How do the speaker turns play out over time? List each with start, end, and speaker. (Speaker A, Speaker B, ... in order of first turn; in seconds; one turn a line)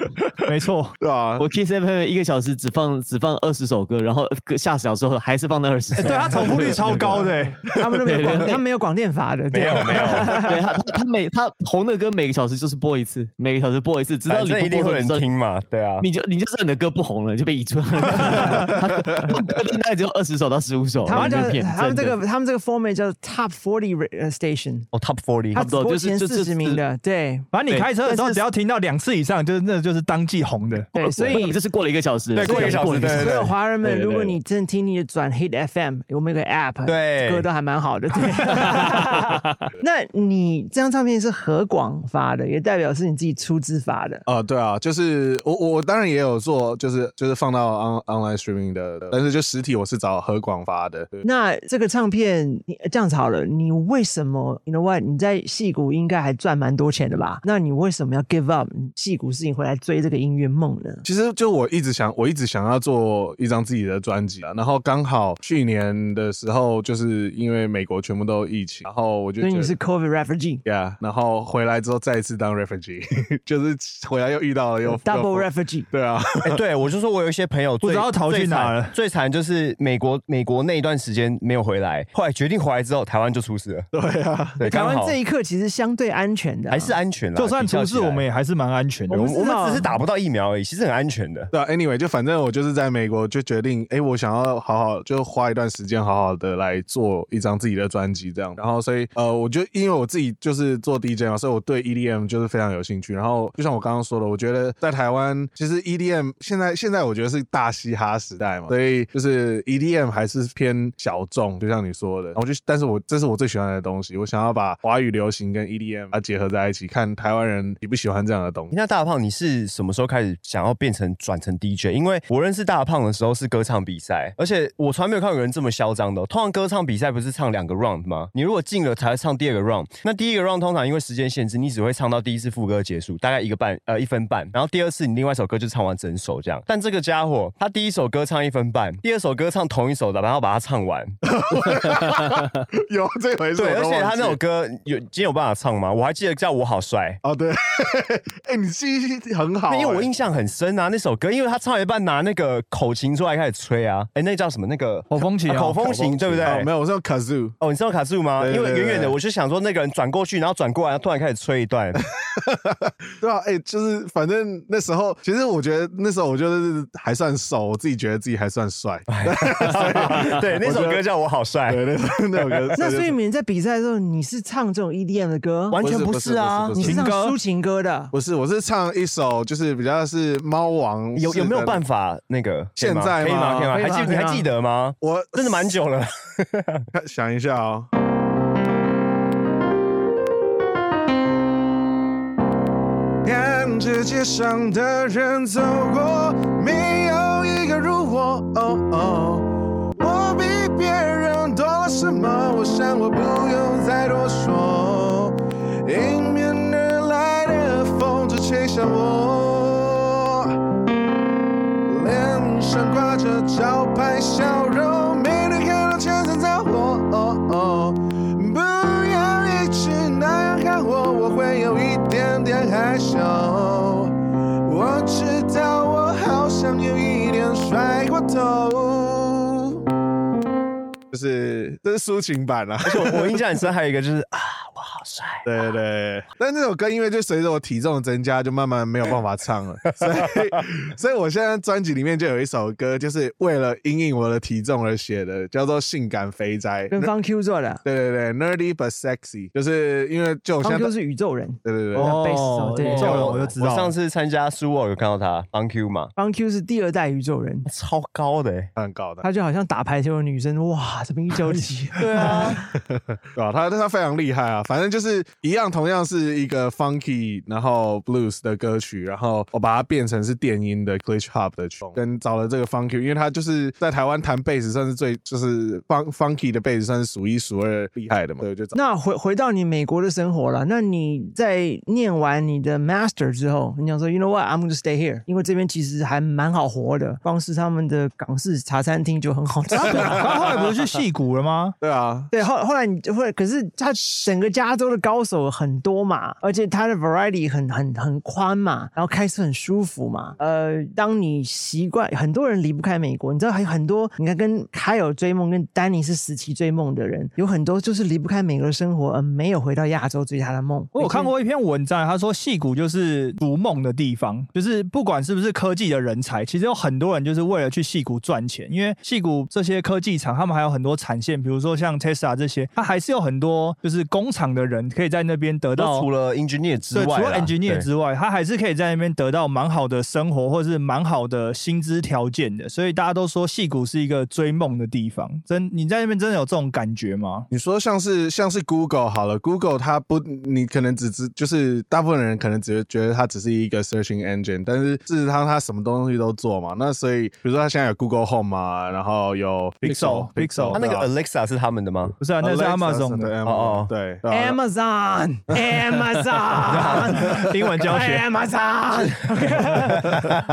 Speaker A: 0.5-1.0
Speaker B: 1.0-1.4
Speaker C: 1.4-7.3
Speaker A: 6.0-7.7
Speaker D: 7.7-10.6
Speaker C: 8.0-8.6
Speaker E: 9.5-10.5
Speaker C: 9.8-15.3
Speaker E: 14.3-16.1
Speaker C: 16.0-22.2
Speaker D: 21.1-24.9
Speaker A: 21.1-21.6
Speaker E: 24.9-25.6
Speaker D: 25.5-27.5
Speaker C: 25.6-26.8
Speaker A: 27.5-30.9
Speaker D: 28.0-28.4
Speaker D: 30.9-31.6
Speaker C: 31.0-34.4
Speaker E: 32.4-33.5
Speaker D: 32.4-44.2
Speaker E: 36.9-37.5
Speaker B: 44.3-51.2
Speaker D: 51.2-61.0
Speaker B: 61.0-69.7
Speaker D: 69.4-70.6
Speaker B: 70.7-76.6
Speaker D: 74.8-75.9
Speaker E: 76.4-83.9
Speaker A: 77.8-79.0
Speaker B: 83.9-84.6
Speaker E: 84.6-85.2
Speaker D: 84.6-87.0
Speaker E: 86.7-88.2
Speaker A: 87.4-89.3
Speaker D: 89.1-90.0
Speaker E: 89.1-91.5
Speaker B: 91.5-118.7
Speaker E: 118.7-141.2
Speaker B: 141.2-144.4
Speaker E: 143.6-147.2
Speaker B: 147.2-150.1
Speaker E: 149.7-156.7
Speaker A: 155.1-156.0
Speaker B: 155.8-157.6
Speaker E: 157.6-162.0
Speaker B: 158.4-159.2
Speaker B: 163.2-171.1
Speaker E: 169.1-172.7
Speaker B: 171.7-173.2
Speaker D: 172.8-175.9
Speaker E: 175.7-176.8
Speaker B: 175.8-177.1
Speaker D: 176.8-178.1
Speaker A: 176.8-177.4
Speaker B: 178.1-181.8
Speaker E: 181.2-186.9
Speaker B: 182.8-183.8
Speaker D: 183.7-184.5
Speaker B: 185.0-185.7
Speaker B: 186.9-187.9
Speaker B: 193.2-210.5
Speaker B: 211.9-224.1
Speaker B: 224.7-229.8
Speaker B: 231.1-233.4
Speaker E: 232.8-235.7
Speaker B: 235.4-247.1
Speaker E: 240.0-240.4
Speaker D: 246.9-247.8
Speaker B: 247.8-250.9
Speaker D: 250.6-253.5
Speaker B: 251.6-252.2
Speaker A: 251.9-253.9
Speaker E: 252.8-256.1
Speaker D: 256.2-257.7
Speaker E: 257.6-258.7
Speaker B: 258.8-259.2
Speaker D: 259.2-262.7
Speaker E: 262.0-262.6
Speaker B: 263.4-278.8
Speaker D: 278.7-290.3
Speaker A: 289.8-291.8
Speaker B: 289.9-290.3
Speaker B: 291.8-292.3
Speaker D: 292.3-311.3
Speaker A: 310.9-326.1
Speaker E: 325.8-327.9
Speaker A: 326.9-337.5
Speaker B: 337.5-351.1
Speaker A: 349.8-350.8
Speaker E: 350.7-352.2
Speaker A: 352.2-353.4
Speaker B: 352.4-354.6
Speaker E: 353.4-353.9
Speaker D: 354.3-360.2
Speaker E: 356.7-357.2
Speaker A: 357.3-358.3